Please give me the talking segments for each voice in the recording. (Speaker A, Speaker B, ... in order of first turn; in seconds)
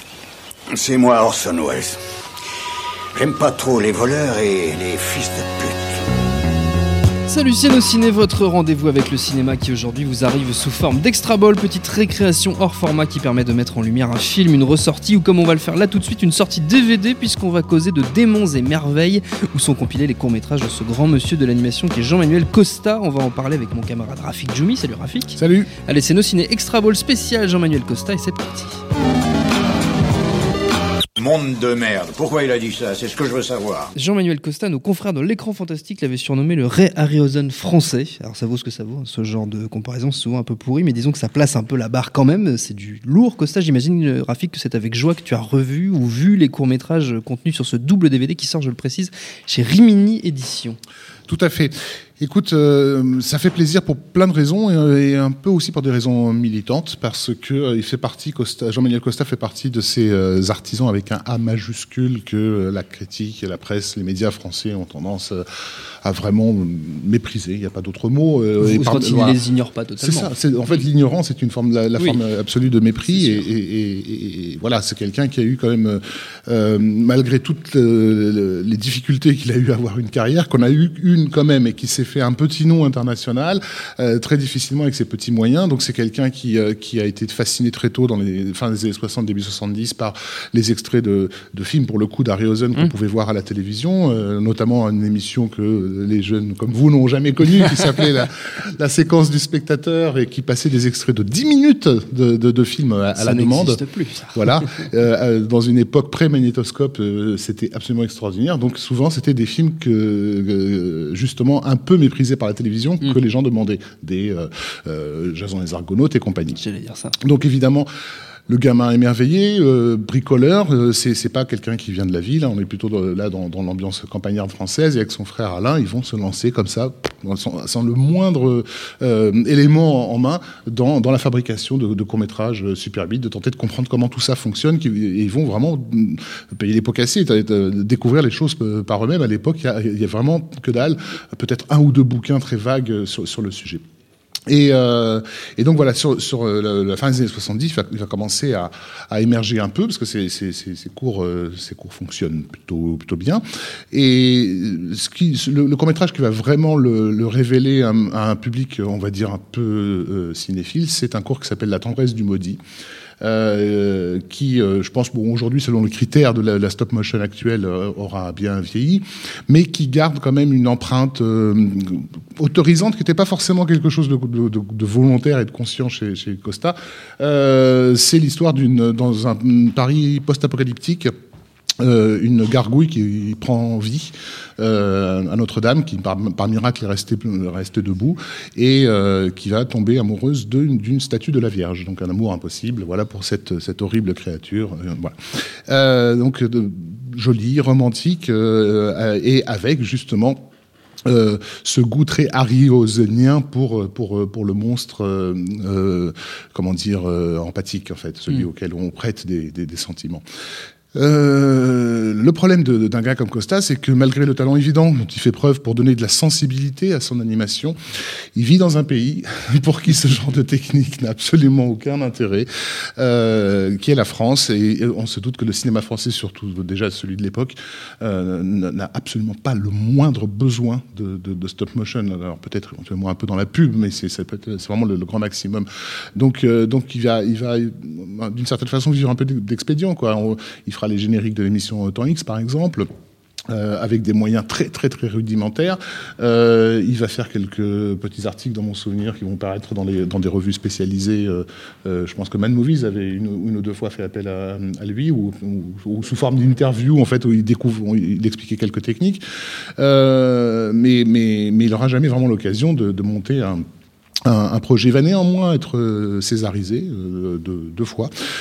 Speaker A: 0.7-2.0, 3.1-6.0, 31.2-33.9
Speaker B: 7.2-28.8, 34.0-50.8, 68.6-70.3, 73.1-73.4, 103.2-104.8, 116.5-117.2
Speaker C: 25.4-25.7, 51.3-65.4, 66.0-69.4, 70.0-103.8, 104.3-116.6, 117.2-117.9, 118.5-143.8, 144.5-162.6, 163.2-181.1, 181.8-195.1, 195.7-200.4, 201.1-210.2, 210.9-217.8, 218.3-242.9, 243.5-259.2, 259.8-263.6, 264.2-268.1